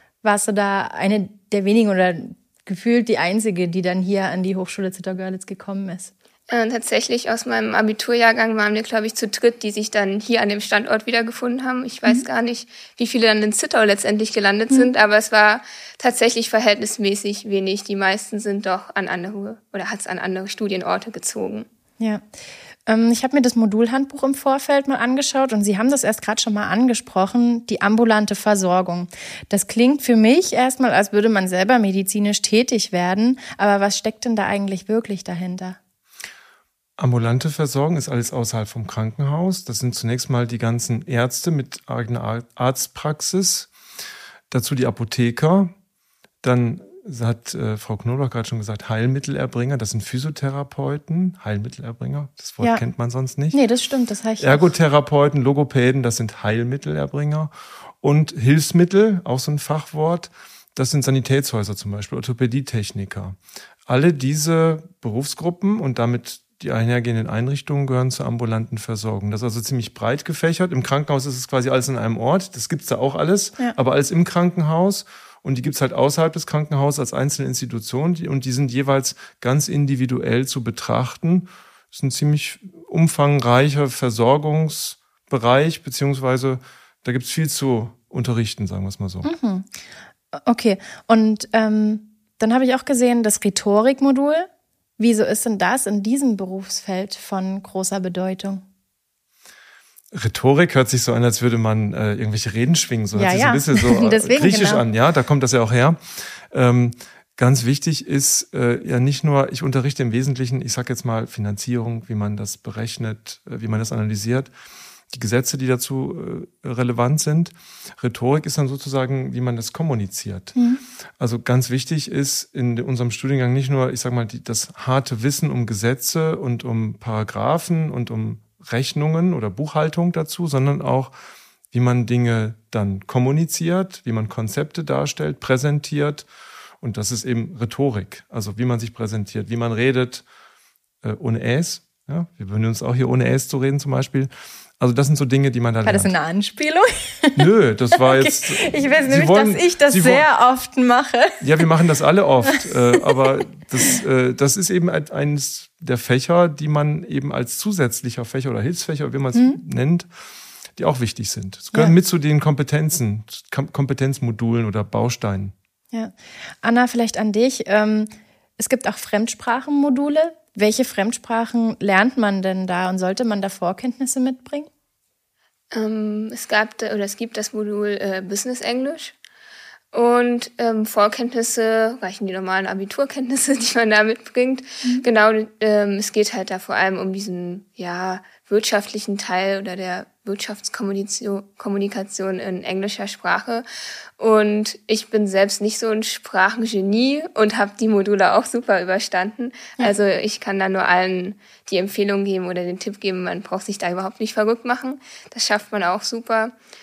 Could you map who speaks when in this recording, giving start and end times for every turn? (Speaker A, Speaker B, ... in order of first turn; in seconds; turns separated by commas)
Speaker A: 0.2-6.1, Speaker B: 6.5-21.7, Speaker A: 22.9-35.8, Speaker C: 37.0-43.7, Speaker C: 44.5-45.7, Speaker C: 46.4-53.6, Speaker A: 53.5-54.7, Speaker C: 54.4-89.3, Speaker A: 89.2-89.7, Speaker A: 90.3-98.6, Speaker C: 100.1-106.0, Speaker A: 103.1-104.8, Speaker C: 106.5-114.5, Speaker C: 115.1-120.5, Speaker A: 120.5-120.8, Speaker C: 121.2-131.1, Speaker C: 131.7-136.3, Speaker C: 136.8-140.2, Speaker C: 141.0-146.1, Speaker A: 145.8-151.6, Speaker C: 147.4-150.2, Speaker C: 151.4-160.1, Speaker A: 152.4-153.2, Speaker A: 159.3-159.6, Speaker C: 160.8-165.5, Speaker A: 165.9-174.7, Speaker B: 175.7-179.1, Speaker B: 179.9-193.6, Speaker B: 194.2-206.5